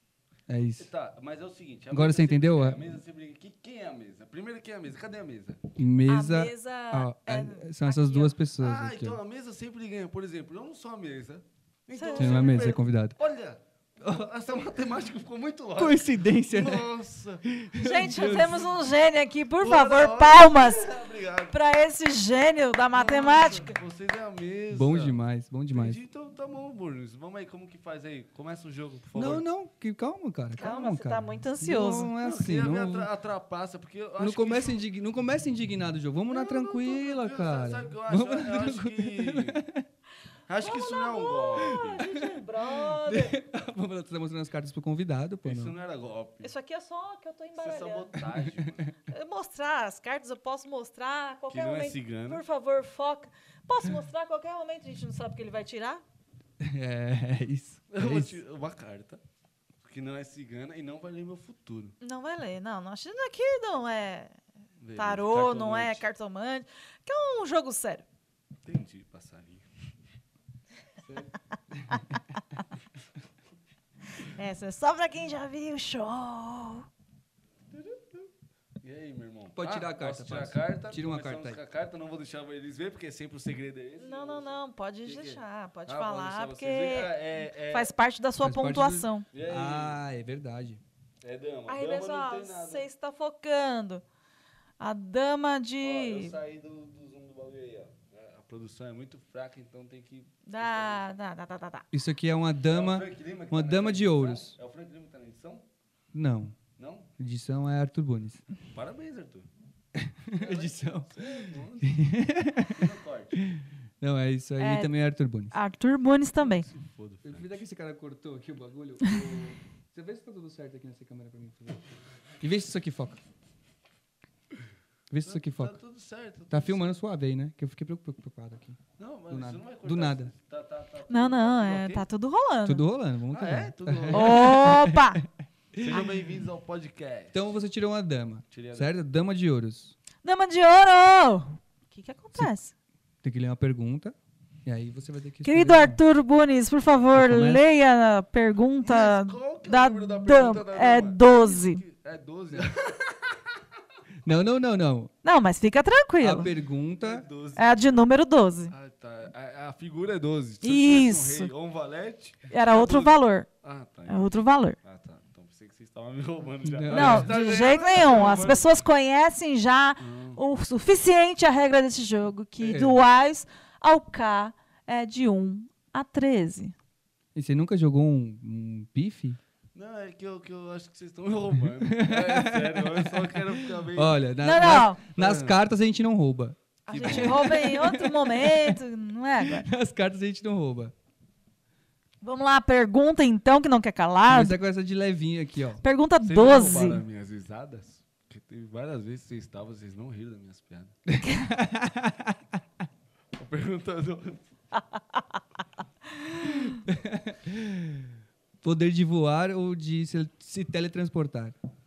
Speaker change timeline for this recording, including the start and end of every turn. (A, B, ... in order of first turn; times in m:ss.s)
0:00.5-0:00.9 A
0:00.8-0:05.6 B
0:01.9-0:02.8 A
0:05.8-0:09.2 A
0:06.1-0:08.3 C
0:08.6-0:17.4 B
0:12.0-0:12.6 C
0:12.2-0:13.2 A
0:15.8-0:16.9 A
0:17.5-0:18.7 A
0:17.8-0:20.9 C
0:19.6-0:21.6 B
0:21.5-0:23.8 C
0:22.9-0:25.2 B
0:24.7-0:26.0 A
0:25.7-0:29.4 B
0:29.2-0:33.1 A
0:30.5-0:32.1 C
0:32.2-0:34.8 B
0:34.2-0:39.9 A
0:36.3-0:39.6 B
0:40.5-0:42.2 B
0:40.6-0:43.4 C
0:42.9-0:45.8 A
0:45.4-0:46.5 B
0:46.4-0:48.1 C
0:47.6-0:48.9 B
0:49.1-0:56.0 C
0:51.5-0:52.4 B
0:56.6-0:58.4 A
0:57.9-0:59.2 B
0:59.8-1:02.0 B
1:02.0-1:04.4 C
1:04.8-1:06.0 B
1:05.0-1:08.1 C
1:08.6-1:09.6 B
1:11.1-1:12.1 A
1:14.2-1:16.9 C
1:17.7-1:18.3 B
1:18.8-1:27.9 B
1:19.6-1:21.6 A
1:24.0-1:29.3 C
1:28.4-1:30.8 A
1:29.3-1:30.0 B
1:31.2-1:32.8 B
1:31.7-1:34.0 C
1:34.8-1:36.4 C
1:35.8-1:41.1 B
1:40.5-1:41.8 C
1:41.9-1:44.5 A
1:42.6-1:45.6 B
1:46.1-1:46.6 A
1:46.8-1:47.1 B
1:47.2-1:48.4 A
1:48.7-1:49.5 B
1:50.0-1:55.5 A
1:50.4-1:52.0 B
1:52.7-1:53.4 B
1:54.6-1:54.9 C
1:55.5-1:56.7 C
1:56.4-1:57.5 B
1:57.2-2:01.8 A
2:02.4-2:03.2 A
2:05.1-2:05.8 A
2:05.2-2:07.0 B
2:06.5-2:10.3 A
2:09.0-2:12.0 B
2:11.1-2:12.8 C
2:12.7-2:16.1 A
2:13.3-2:14.7 B
2:14.1-2:15.2 C
2:15.8-2:17.4 B
2:17.3-2:20.0 A
2:18.5-2:18.9 B
2:20.2-2:22.7 C
2:23.2-2:24.1 A
2:24.6-2:26.0 A
2:25.4-2:31.8 C
2:27.1-2:27.6 A
2:28.8-2:33.7 B
2:34.2-2:35.1 A
2:35.2-2:36.5 C
2:36.2-2:37.3 A
2:37.0-2:38.0 B
2:37.6-2:38.7 C
2:38.7-2:48.7 B
2:40.6-2:41.5 C
2:42.5-2:43.5 C
2:44.1-2:44.8 C
2:46.6-2:47.4 A
2:46.9-2:56.7 C
2:50.0-2:50.4 B
2:52.6-2:53.0 A
2:57.4-2:59.4 A
2:59.7-3:05.6 B
3:01.8-3:08.8 A
3:04.4-3:05.0 C
3:06.9-3:07.7 B
3:06.9-3:09.7 C
3:09.4-3:10.9 A
3:12.2-3:14.6 C
3:14.3-3:15.8 A
3:15.8-3:17.0 C
3:16.2-3:21.0 B
3:21.1-3:22.4 A
3:23.4-3:24.5 B
3:24.8-3:25.2 C
3:26.4-3:26.8 C
3:26.9-3:28.1 A
3:28.6-3:31.6 A